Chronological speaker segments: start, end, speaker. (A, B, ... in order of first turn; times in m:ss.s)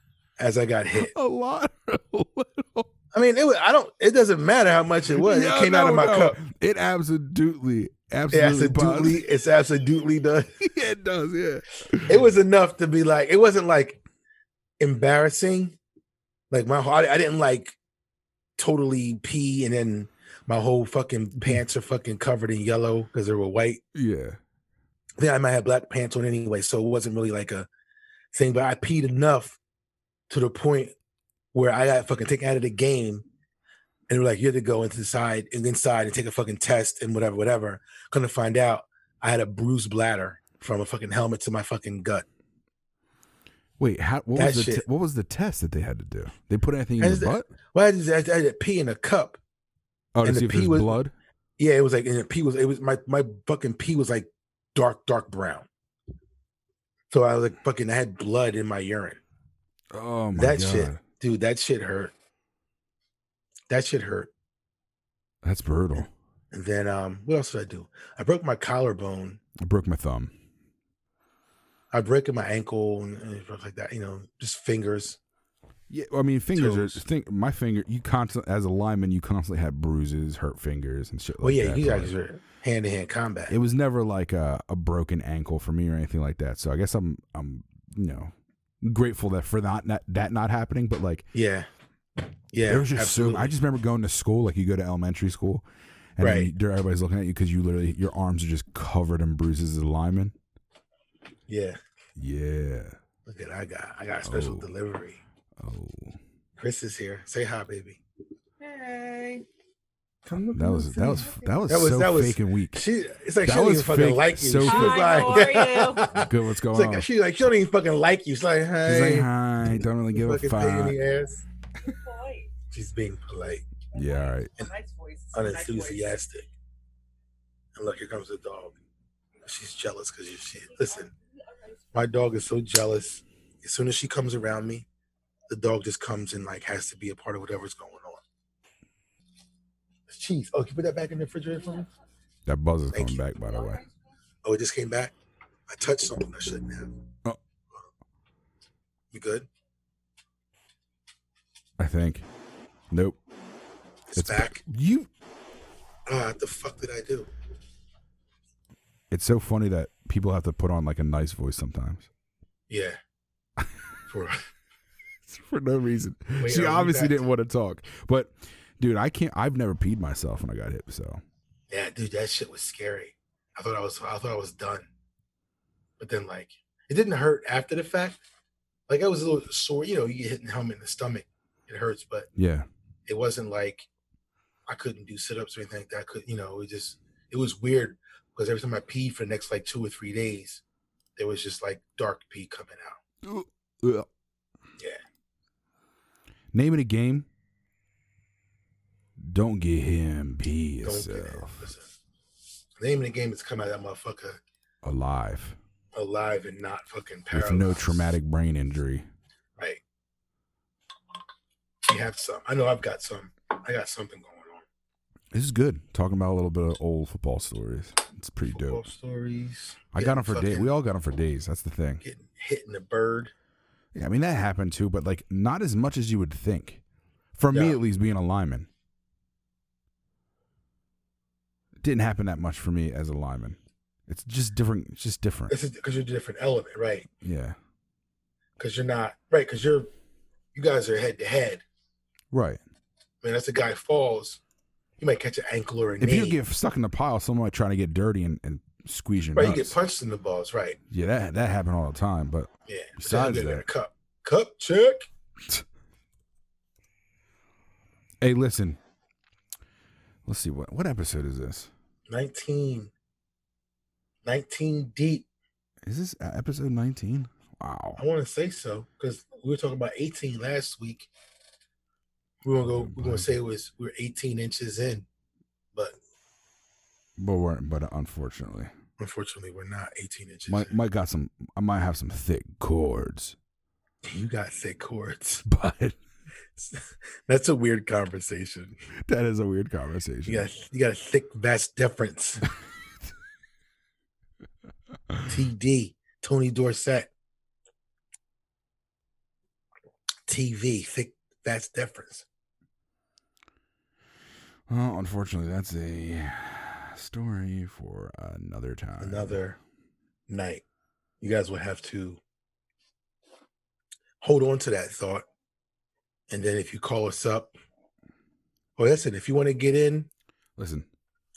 0:00.4-0:01.1 A
0:00.9-0:02.9 B
0:03.1-0:06.4 A
0:05.1-0:09.2 B
0:08.3-0:10.5 A
0:10.6-0:12.1 B
0:12.0-0:14.0 A
0:14.8-0:15.8 A
0:16.5-0:17.8 A
0:18.6-0:23.8 A
0:23.9-0:24.4 B
0:25.2-0:27.7 A
0:28.3-0:29.6 A
0:30.3-0:30.9 A
0:31.5-0:33.2 A
0:34.1-0:42.2 A
0:43.8-0:47.5 B
0:44.3-0:44.8 A
0:47.0-0:49.4 A
0:50.1-0:51.1 B
0:50.2-0:50.9 A
0:51.6-0:55.7 A
0:57.1-0:59.2 A
0:59.9-1:01.0 B
1:00.3-1:02.1 A
1:03.7-1:04.3 A
1:05.4-1:06.1 B
1:06.5-1:09.4 A
1:09.6-1:10.3 B
1:11.9-1:15.2 A
1:15.9-1:22.1 B
1:16.6-1:17.0 A
1:21.4-1:23.5 A
1:23.5-1:31.2 B
1:31.3-1:31.7 A
1:32.5-1:33.5 A
1:32.7-1:35.6 B
1:36.2-1:40.3 B
1:36.2-1:36.5 A
1:41.5-1:41.8 A
1:42.2-1:43.0 B
1:43.3-1:45.2 A
1:44.2-1:44.7 B
1:45.6-1:46.2 B
1:46.6-1:48.0 A
1:48.6-1:49.4 A
1:50.2-1:59.3 A
1:50.5-1:52.8 B
1:53.4-1:55.1 B
1:54.6-1:56.2 C
1:56.1-1:57.1 B
1:58.8-2:01.0 B
2:00.1-2:01.4 A
2:01.8-2:02.5 C
2:02.7-2:03.7 A
2:03.8-2:06.1 C
2:03.9-2:04.5 B
2:05.3-2:06.5 A
2:07.8-2:08.8 A
2:09.4-2:11.1 A
2:10.8-2:12.1 C
2:11.9-2:14.8 A
2:15.5-2:18.2 A
2:20.1-2:21.9 A
2:22.4-2:23.8 B
2:22.9-2:23.2 A
2:24.4-2:25.1 A
2:25.7-2:26.9 A
2:29.1-2:29.5 A
2:31.8-2:32.2 B
2:32.9-2:33.2 B
2:34.1-2:34.6 A
2:34.1-2:35.1 B
2:36.1-2:37.3 A
2:39.1-2:42.1 B
2:42.7-2:43.0 A
2:44.1-2:44.4 A
2:45.3-2:51.2 B
2:46.4-2:47.2 A
2:51.7-2:54.9 A
2:56.0-2:58.2 A
2:58.9-3:02.3 A
3:02.4-3:02.7 B
3:03.1-3:03.9 A
3:04.7-3:10.6 A
3:11.2-3:13.0 A
3:13.2-3:14.1 B
3:16.5-3:17.3 B
3:19.2-3:21.7 B
3:20.8-3:21.9 A
3:22.8-3:24.4 A
3:24.8-3:25.6 B
3:25.9-3:28.1 A
3:27.3-3:29.1 B
3:31.8-3:34.6 A
3:35.3-3:38.8 B
3:38.5-3:40.7 A
3:39.9-3:42.0 B
3:42.0-3:43.3 A
3:43.9-3:46.8 B
3:47.4-3:48.7 B
3:47.5-3:47.8 A
3:51.8-3:55.5 B
3:55.5-3:57.1 A
3:57.2-3:57.6 B
3:58.6-3:59.9 A
4:00.5-4:01.6 A
4:02.3-4:02.6 B
4:03.2-4:04.4 A
4:05.0-4:06.4 A
4:06.0-4:09.8 B
4:09.3-4:10.8 A
4:10.9-4:13.6 B
4:12.7-4:15.0 A
4:18.2-4:18.8 B
4:20.2-4:21.7 B
4:22.1-4:22.9 A
4:24.2-4:25.2 A
4:25.8-4:28.0 B
4:28.0-4:31.1 A
4:32.4-4:35.1 A
4:32.6-4:33.3 B
4:37.2-4:38.7 B
4:39.0-4:40.8 A
4:40.5-4:43.4 B
4:44.0-4:45.4 A
4:45.4-4:46.0 B
4:46.6-4:48.8 A
4:49.0-4:50.5 B
4:50.2-4:52.5 A
4:55.3-4:57.1 A
5:00.3-5:02.2 A
5:04.7-5:09.4 B
5:09.0-5:09.6 A
5:10.3-5:10.6 A
5:11.2-5:12.2 A
5:14.2-5:15.2 A
5:16.3-5:17.6 A
5:18.8-5:20.1 A
5:20.6-5:20.9 B